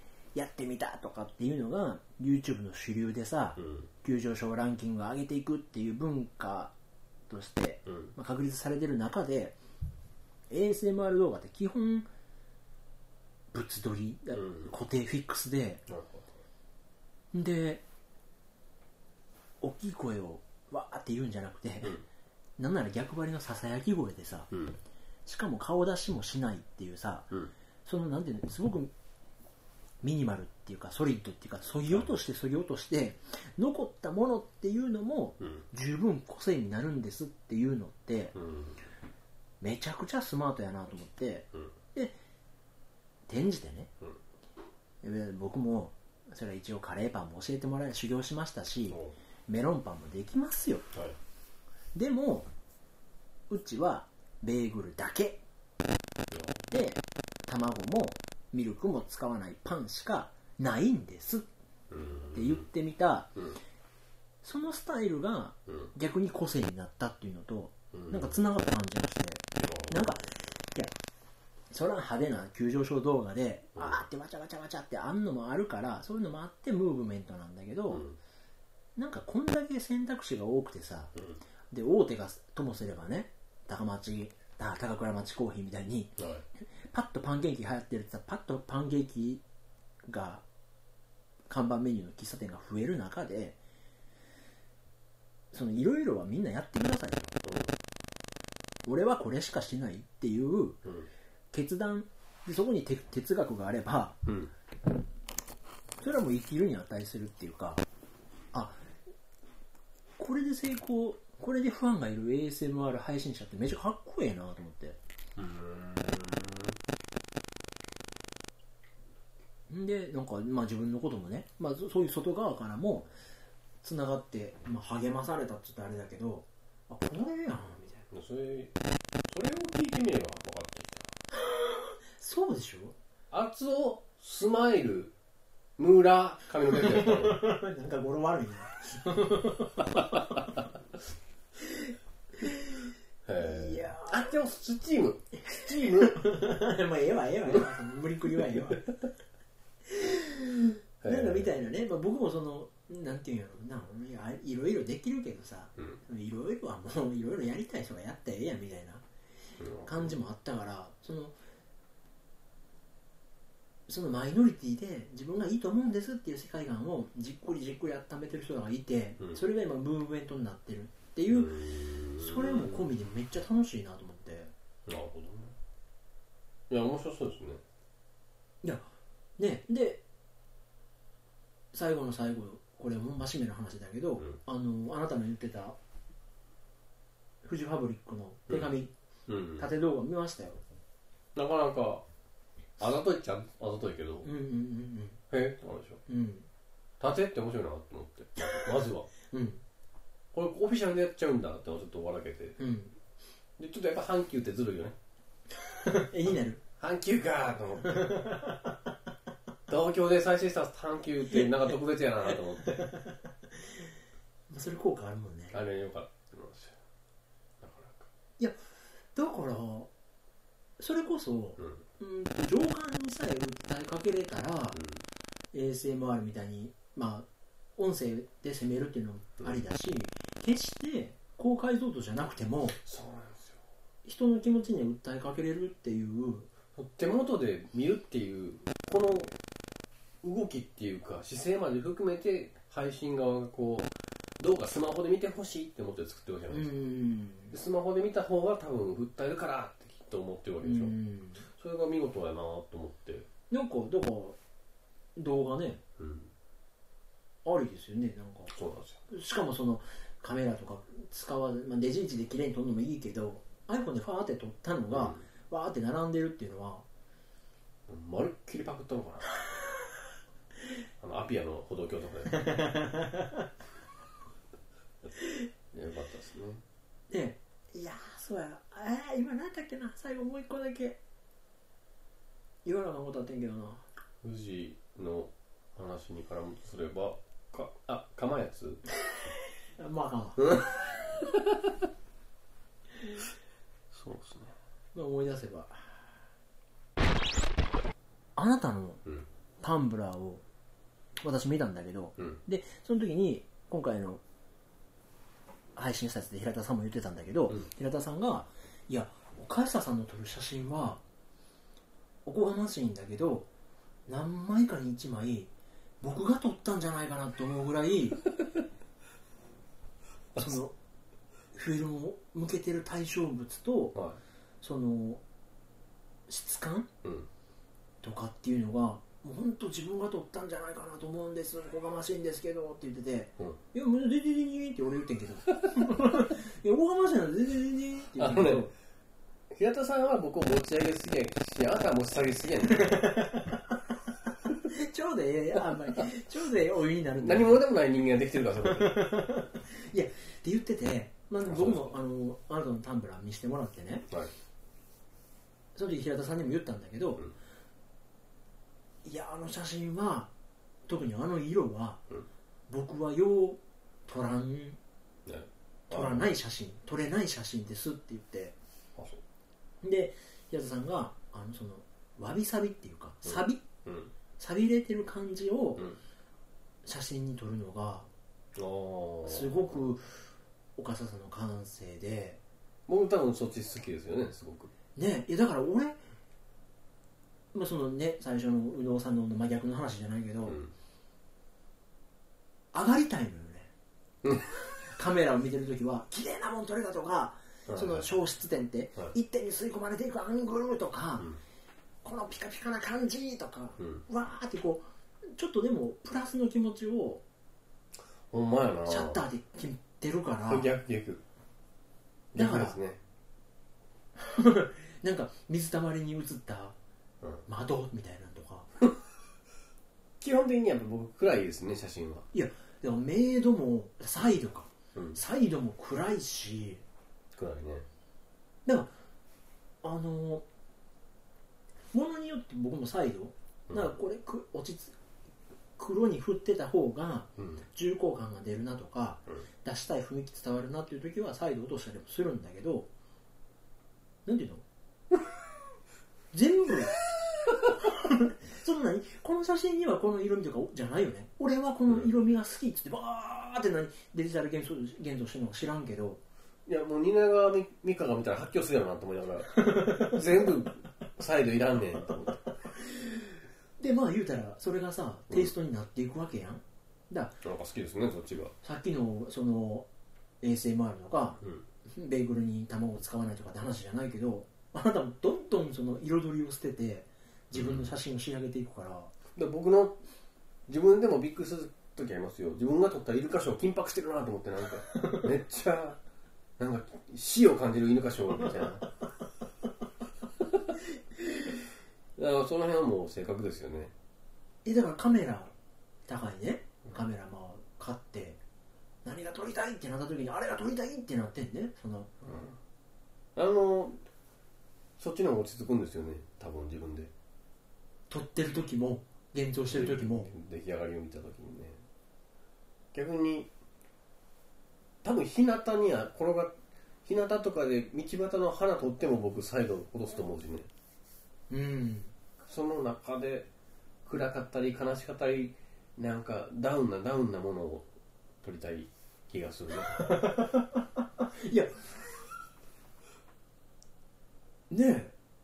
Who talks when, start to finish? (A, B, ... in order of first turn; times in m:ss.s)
0:00.3-0:06.7 A
0:03.6-0:03.9 B
0:07.3-0:09.6 A
0:07.8-0:08.1 B
0:10.5-0:12.1 A
0:13.5-0:15.8 A
0:14.3-0:14.7 B
0:15.9-0:16.4 B
0:17.3-0:17.8 A
0:19.6-0:22.0 A
0:22.6-0:24.5 A
0:24.5-0:24.8 B
0:25.2-0:27.3 A
0:27.8-0:28.9 A
0:30.0-0:38.4 A
0:31.9-0:32.1 B
0:38.3-0:38.8 B
0:39.6-0:42.1 A
0:43.3-0:43.9 A
0:45.0-0:50.9 A
0:48.9-0:49.1 B
0:51.9-0:52.5 A
0:53.5-0:55.4 A
0:56.3-0:56.6 B
0:56.7-1:01.5 A
1:01.9-1:02.6 B
1:02.3-1:03.3 A
1:04.4-1:10.9 A
1:07.9-1:08.4 B
1:09.6-1:10.3 B
1:11.7-1:18.0 A
1:13.8-1:14.0 B
1:17.9-1:18.2 B
1:19.0-1:21.1 A
1:21.7-1:29.4 A
1:26.2-1:26.4 B
1:30.0-1:30.4 A
1:31.5-1:33.6 A
1:35.5-1:37.3 A
1:37.4-1:37.7 B
1:38.8-1:40.8 A
1:40.8-1:41.1 B
1:41.5-1:44.2 A
1:44.2-1:44.5 B
1:46.0-1:47.8 A
1:48.5-1:48.8 A
1:50.2-1:55.0 A
1:55.4-1:56.8 B
1:59.7-2:03.1 A
2:03.8-2:08.0 A
2:08.1-2:11.0 B
2:11.4-2:12.9 A
2:13.3-2:15.1 B
2:15.8-2:17.4 B
2:16.7-2:20.5 A
2:21.7-2:24.3 A
2:23.2-2:26.2 B
2:25.8-2:28.9 A
2:29.9-2:39.0 A
2:31.0-2:31.5 B
2:39.6-2:40.2 B
2:39.8-2:41.4 A
2:43.9-2:51.6 A
2:51.3-2:52.9 B
2:52.2-2:54.5 A
2:54.8-2:55.6 B
2:56.7-2:57.6 B
2:58.6-3:00.0 A
3:01.7-3:05.8 A
3:07.4-3:08.9 A
3:08.5-3:08.7 B
3:09.3-3:09.7 B
3:09.6-3:10.6 A
3:11.3-3:12.0 B
3:12.8-3:14.3 B
3:14.2-3:15.2 A
3:15.3-3:16.0 B
3:16.1-3:16.5 A
3:17.0-3:19.1 B
3:19.3-3:19.6 A
3:20.3-3:22.6 B
3:22.6-3:22.9 A
3:23.6-3:25.0 B
3:25.6-3:26.6 A
3:26.8-3:28.2 B
3:27.8-3:28.8 A
3:29.7-3:32.8 B
3:32.6-3:33.2 A
3:34.5-3:35.6 A
3:35.5-3:36.8 B
3:37.6-3:38.1 B
3:39.1-3:39.9 A
3:40.8-3:44.8 A
3:44.7-3:45.0 B
3:45.5-3:52.8 A
3:52.8-3:53.6 B
3:54.0-3:56.5 A
3:56.7-3:59.3 B
4:00.2-4:06.7 B
4:06.5-4:07.5 A
4:07.5-4:11.0 B
4:10.6-4:11.4 A
4:11.5-4:13.3 B
4:13.5-4:14.4 A
4:15.2-4:15.8 A
4:16.0-4:16.3 B
4:17.4-4:18.5 A
4:18.5-4:19.0 B
4:19.1-4:26.8 A
4:24.9-4:25.2 B
4:27.9-4:29.3 B
4:31.0-4:32.5 B
4:32.4-4:33.4 A
4:35.7-4:36.6 B
4:37.1-4:41.0 A
4:42.6-4:43.8 A
4:44.2-4:48.8 B
4:49.8-4:50.8 A
4:50.4-4:50.6 B
4:53.9-4:54.5 B
4:54.9-4:56.0 A
4:58.4-4:59.0 A
4:59.6-5:00.4 A
5:01.2-5:04.2 A
5:05.8-5:11.0 A
5:12.2-5:13.5 A
5:14.1-5:18.2 A
5:20.4-5:20.8 A
5:21.5-5:24.0 A
5:24.6-5:25.2 A
5:26.3-5:26.9 A
5:27.0-5:27.3 B
5:28.0-5:38.7 A
5:38.2-5:38.7 B
5:39.5-5:43.1 B
5:42.8-5:43.6 A
5:44.7-5:47.6 A
5:47.2-5:49.0 B
5:48.7-5:54.1 A
5:51.4-5:51.9 B
5:55.7-5:57.2 A
5:59.0-6:00.3 A
6:00.9-6:02.0 A
6:02.7-6:04.8 A
6:05.2-6:06.3 B
6:05.9-6:08.5 A
6:08.9-6:09.2 B
6:09.8-6:13.6 A
6:13.2-6:14.1 B
6:14.4-6:15.9 A
6:16.8-6:18.1 A
6:18.5-6:19.8 B
6:19.2-6:20.1 A
6:20.8-6:22.4 A
6:22.9-6:24.7 B
6:25.0-6:26.0 A
6:27.5-6:30.6 A
6:30.5-6:30.7 B
6:32.7-6:33.7 A
6:34.2-6:34.5 B
6:34.9-6:41.3 A
6:37.7-6:38.1 B
6:42.0-6:47.2 A
6:48.3-6:49.2 B
6:48.8-6:50.7 A
6:50.5-6:51.2 B
6:52.3-6:53.0 B
6:52.3-6:52.8 A
6:54.2-6:56.8 A
6:57.4-6:58.7 A
7:00.2-7:02.3 B
7:02.3-7:06.8 A
7:07.3-7:07.8 B
7:08.6-7:08.9 A
7:09.8-7:10.4 A
7:11.9-7:15.0 A
7:13.7-7:13.9 B
7:15.8-7:22.9 A
7:17.4-7:17.6 B
7:24.2-7:24.6 A
7:26.3-7:27.0 A
7:27.8-7:36.2 A
7:36.6-7:42.4 B
7:39.6-7:40.2 A
7:42.8-7:43.3 A
7:43.8-7:47.4 A
7:47.4-7:48.5 B
7:48.6-7:49.9 A
7:50.4-7:59.1 A
7:57.5-7:57.9 B
7:59.3-8:00.0 B
8:00.7-8:06.0 B
8:05.0-8:05.2 A
8:06.6-8:08.9 B
8:12.2-8:13.9 B
8:14.6-8:15.5 A
8:16.1-8:18.4 A
8:19.0-8:22.1 A
8:22.2-8:22.6 B
8:23.4-8:24.0 B
8:25.0-8:27.1 B
8:28.1-8:30.3 A
8:29.7-8:31.8 B
8:32.9-8:33.5 B
8:35.0-8:40.7 B
8:41.5-8:42.1 A
8:42.4-8:43.5 B
8:44.0-8:47.9 B
8:48.4-8:50.0 B
8:50.0-8:51.8 A
8:54.7-8:55.1 A